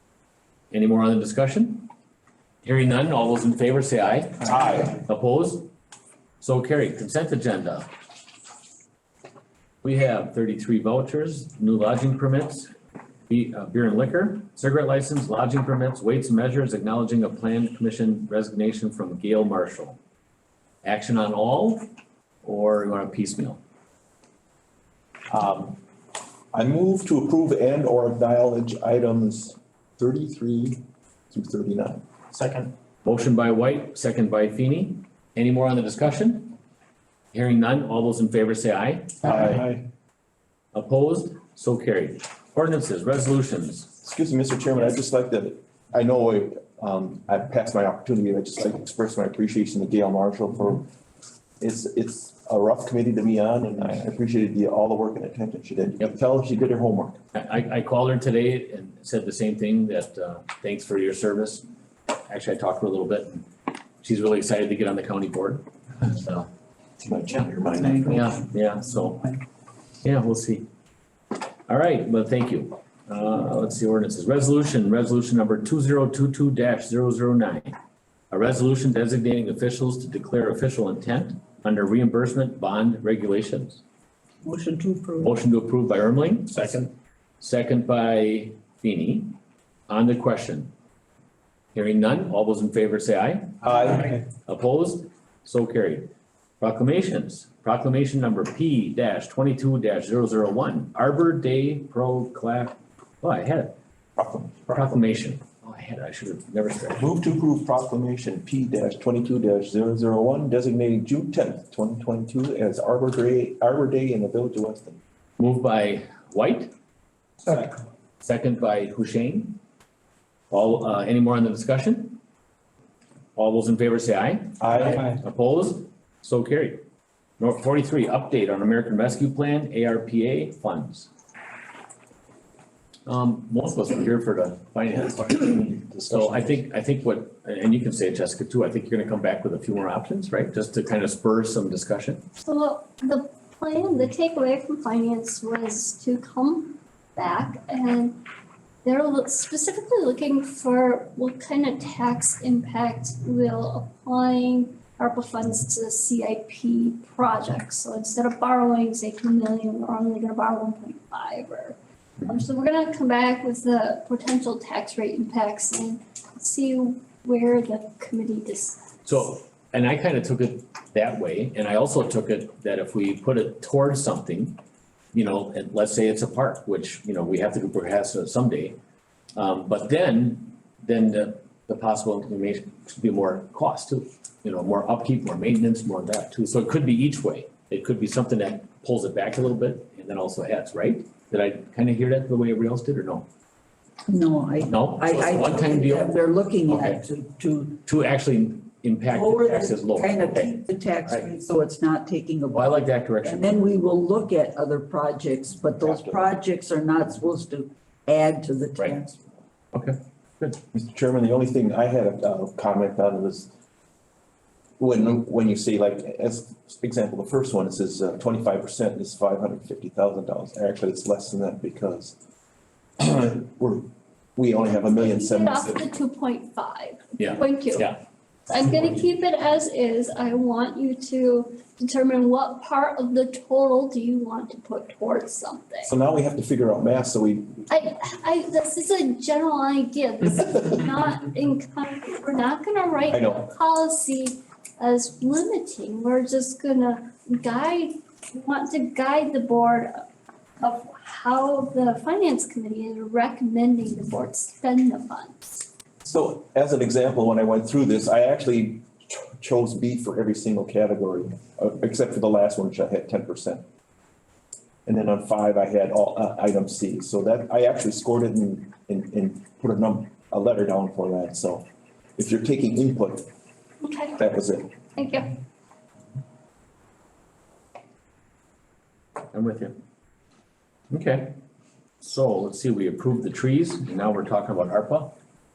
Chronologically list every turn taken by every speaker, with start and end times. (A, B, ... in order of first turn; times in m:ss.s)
0:00.7-0:01.9 A
0:02.6-0:05.7 A
0:04.4-0:05.0 B
0:06.4-0:07.9 A
0:09.8-0:12.7 A
0:13.3-0:20.0 A
0:20.8-0:21.9 A
0:22.4-0:23.6 A
0:25.3-0:25.8 B
0:26.5-0:32.0 B
0:33.0-0:36.6 A
0:37.3-0:39.6 A
0:39.2-0:39.8 B
0:40.7-0:43.9 A
0:44.0-0:50.9 B
0:51.6-0:57.2 B
0:57.3-1:01.6 A
1:02.3-1:03.5 A
1:04.0-1:06.5 A
1:07.0-1:08.4 B
1:08.0-1:09.3 A
1:10.0-1:10.7 A
1:11.7-1:17.8 A
1:18.3-1:23.8 A
1:24.4-1:25.3 C
1:25.2-1:26.8 A
1:27.4-1:29.4 A
1:29.9-1:30.7 A
1:31.7-1:43.7 A
1:33.7-1:34.1 B
1:44.2-1:44.9 B
1:44.7-1:47.0 A
1:46.9-1:55.0 B
1:55.4-1:56.7 A
1:58.2-1:59.6 A
2:00.5-2:02.2 A
2:03.4-2:06.8 A
2:04.6-2:05.2 B
2:07.4-2:11.1 A
2:13.1-2:22.2 A
2:15.2-2:16.6 B
2:22.4-2:28.2 D
2:28.8-2:48.8 D
2:49.0-2:54.6 A
2:55.1-2:58.8 A
2:59.4-3:13.3 A
3:14.1-3:17.8 C
3:14.7-3:17.0 A
3:17.8-3:21.3 A
3:19.1-3:29.2 C
3:22.5-3:23.6 A
3:25.7-3:26.3 B
3:29.7-3:30.6 A
3:30.7-3:33.5 B
3:34.8-3:42.2 B
3:43.0-3:45.9 B
3:45.0-3:47.9 D
3:47.2-3:48.0 A
3:48.5-3:55.9 D
3:55.8-3:57.7 B
3:57.7-4:10.1 D
4:03.1-4:03.5 B
4:10.6-4:15.7 D
4:16.0-4:23.6 B
4:24.9-4:31.7 B
4:32.2-4:33.3 B
4:33.8-4:34.2 D
4:34.2-4:34.7 B
4:35.0-4:35.4 D
4:39.3-4:39.8 A
4:40.9-4:41.4 A
4:42.0-4:45.2 A